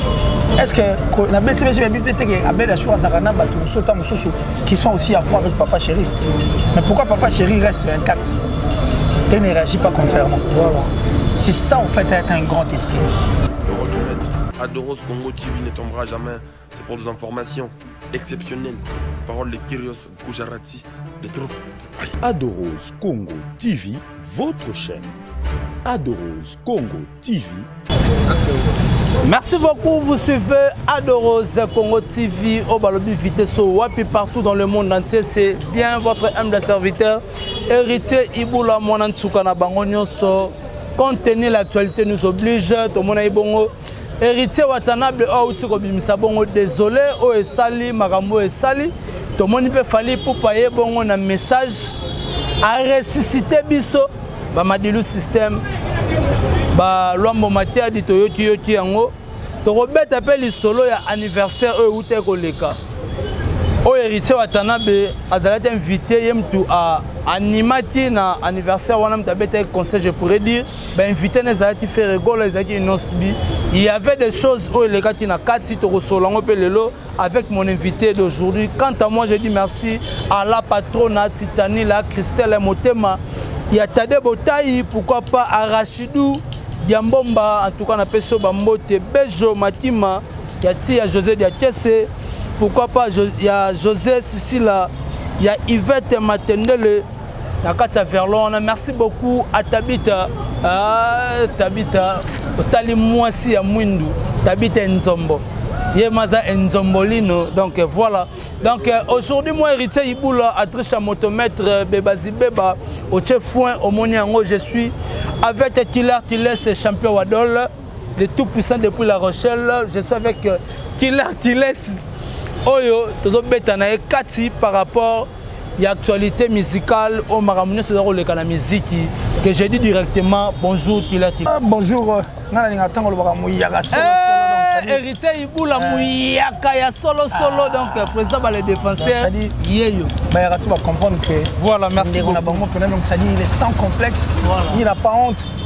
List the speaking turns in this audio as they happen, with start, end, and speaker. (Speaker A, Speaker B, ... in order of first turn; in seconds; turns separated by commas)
Speaker A: 0.6-6.1, Speaker A: 6.7-8.4, Speaker A: 9.3-10.6, Speaker B: 10.5-10.9, Speaker A: 11.3-13.1, Speaker C: 13.7-22.1, Speaker D: 22.2-25.1, Speaker D: 25.8-27.7, Speaker B: 29.2-52.0, Speaker B: 52.6-55.6, Speaker B: 56.7-59.1, Speaker B: 59.6-62.8, Speaker B: 63.8-97.0, Speaker B: 97.6-122.0, Speaker B: 122.6-131.5, Speaker A: 131.4-135.0, Speaker B: 133.9-140.1, Speaker A: 135.7-136.1, Speaker A: 137.3-138.2, Speaker A: 138.9-139.5, Speaker A: 140.3-145.4, Speaker B: 141.5-142.7, Speaker B: 144.4-144.8